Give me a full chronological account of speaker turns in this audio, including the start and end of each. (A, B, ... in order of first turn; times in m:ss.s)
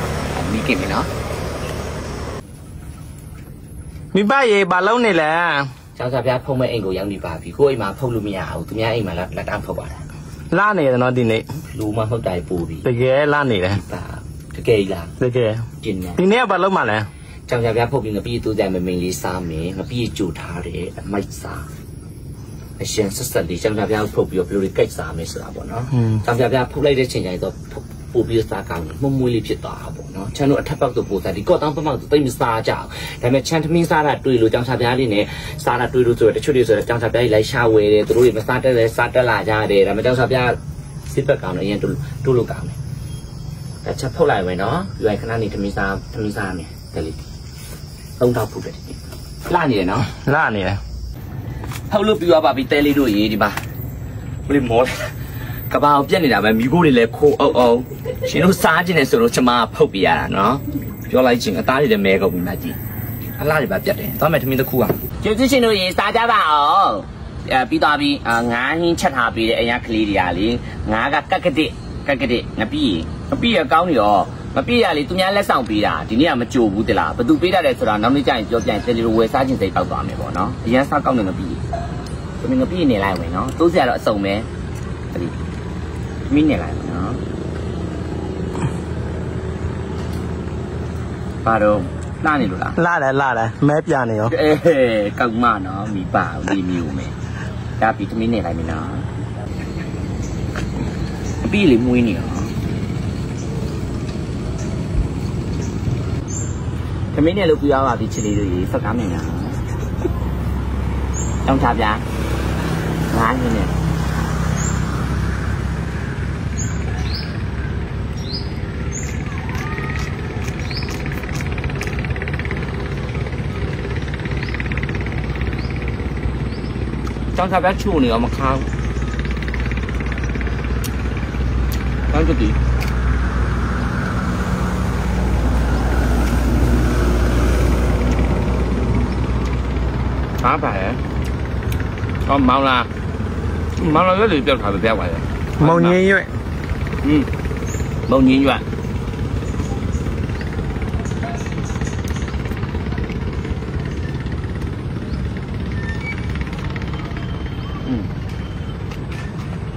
0:00.3-0:01.1 A
0:04.1-0:05.7 B
0:06.0-0:10.0 A
0:10.5-0:11.4 B
0:11.5-0:12.9 A
0:12.8-0:13.8 B
0:13.7-0:15.1 A
0:15.2-0:15.6 B
0:15.8-0:16.2 A
0:16.2-0:17.1 B
0:17.5-0:21.6 A
0:22.8-0:42.7 A
0:43.8-0:47.2 A
0:48.2-0:50.1 A
0:50.2-0:50.8 B
0:51.9-0:53.6 A
0:54.4-0:55.1 A
0:55.7-1:02.8 A
1:03.4-1:21.6 A
1:22.4-1:24.5 A
1:25.1-1:25.4 A
1:26.3-1:27.2 A
1:31.4-1:32.8 A
1:32.8-1:34.3 B
1:34.3-1:37.1 A
1:37.8-1:39.1 A
1:41.4-1:42.5 A
1:47.1-1:49.6 A
1:51.4-1:52.0 A
1:53.1-1:53.7 A
2:07.3-2:08.7 A
2:12.1-2:12.6 A
2:20.4-2:21.0 A
2:22.2-2:22.9 A
2:23.8-2:26.0 A
2:25.6-2:26.3 B
2:28.1-2:28.6 A